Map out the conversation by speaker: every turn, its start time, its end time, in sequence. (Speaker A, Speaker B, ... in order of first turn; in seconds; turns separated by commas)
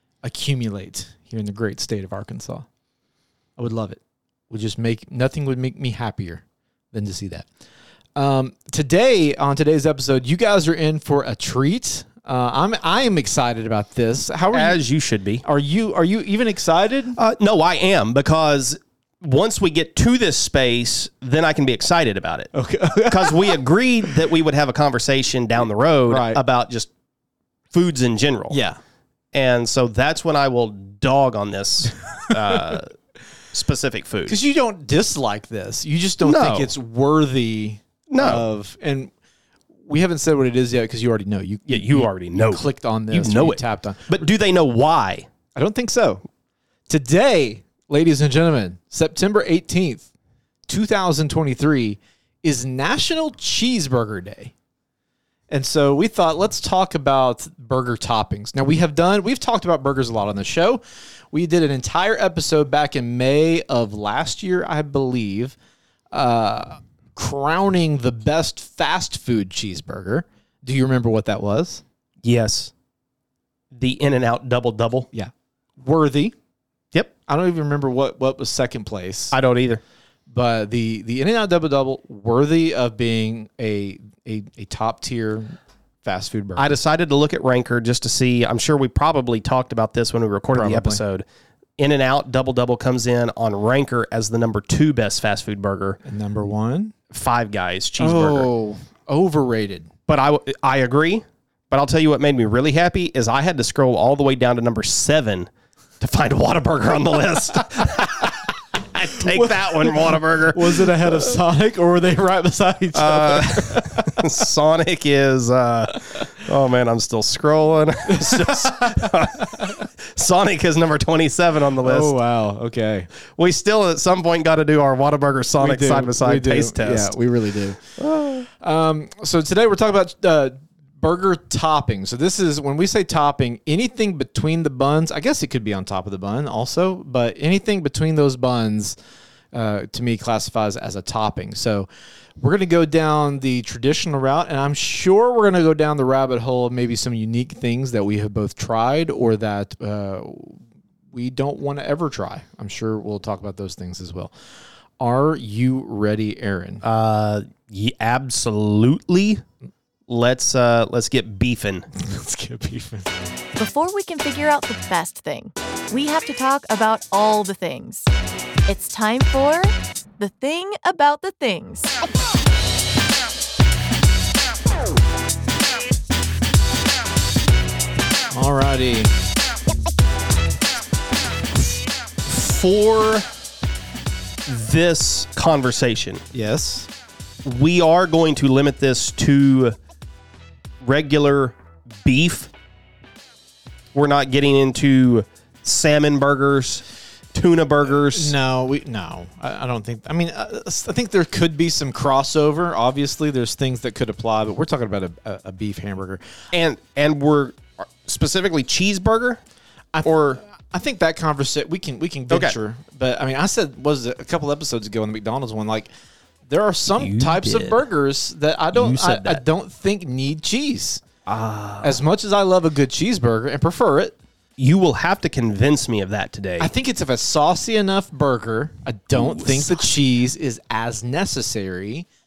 Speaker A: 0.2-2.6, Speaker A: 3.6-7.5, Speaker A: 8.2-14.8, Speaker B: 14.5-15.4, Speaker A: 15.4-17.2, Speaker B: 17.1-22.5, Speaker A: 22.5-23.6, Speaker B: 23.1-26.9, Speaker A: 26.1-26.4, Speaker B: 27.7-28.6, Speaker A: 28.5-28.8, Speaker B: 29.3-32.9, Speaker B: 33.5-34.4, Speaker A: 34.3-39.1, Speaker B: 36.2-36.7, Speaker B: 38.1-38.4, Speaker A: 39.9-44.3, Speaker B: 41.7-45.3, Speaker A: 45.5-46.2, Speaker A: 46.9-50.1, Speaker A: 50.7-54.5, Speaker A: 55.5-65.5, Speaker A: 66.1-71.8, Speaker B: 72.2-72.7, Speaker B: 73.7-75.1, Speaker A: 75.1-76.3, Speaker A: 77.3-79.3, Speaker B: 79.3-79.8, Speaker A: 80.3-86.7, Speaker B: 86.6-91.2, Speaker A: 90.5-91.0, Speaker B: 91.8-96.0, Speaker A: 96.0-96.9, Speaker B: 97.1-98.5, Speaker A: 98.0-99.9, Speaker B: 100.1-111.4, Speaker A: 109.2-114.2, Speaker B: 112.9-122.1, Speaker A: 118.1-118.7, Speaker A: 121.8-123.1, Speaker B: 123.3-127.1, Speaker A: 125.6-139.0, Speaker B: 128.0-128.4, Speaker A: 139.5-141.9, Speaker A: 142.4-154.3, Speaker A: 155.0-156.8, Speaker B: 156.8-159.4, Speaker B: 160.1-161.8, Speaker A: 161.9-163.2, Speaker C: 163.6-168.1, Speaker C: 168.7-171.9, Speaker A: 178.3-179.1, Speaker B: 182.2-183.3, Speaker B: 184.4-186.2, Speaker A: 186.3-186.9, Speaker B: 187.4-189.8, Speaker B: 190.8-192.5, Speaker B: 193.9-196.8, Speaker B: 197.3-198.3, Speaker A: 198.0-206.2, Speaker B: 206.5-209.4, Speaker A: 209.9-215.9, Speaker B: 210.0-210.4, Speaker B: 212.3-212.6, Speaker A: 216.5-221.0, Speaker B: 217.0-217.8, Speaker B: 218.7-219.4, Speaker B: 221.2-222.0, Speaker A: 221.8-224.2, Speaker B: 224.6-226.7, Speaker A: 226.6-232.1, Speaker B: 229.1-229.9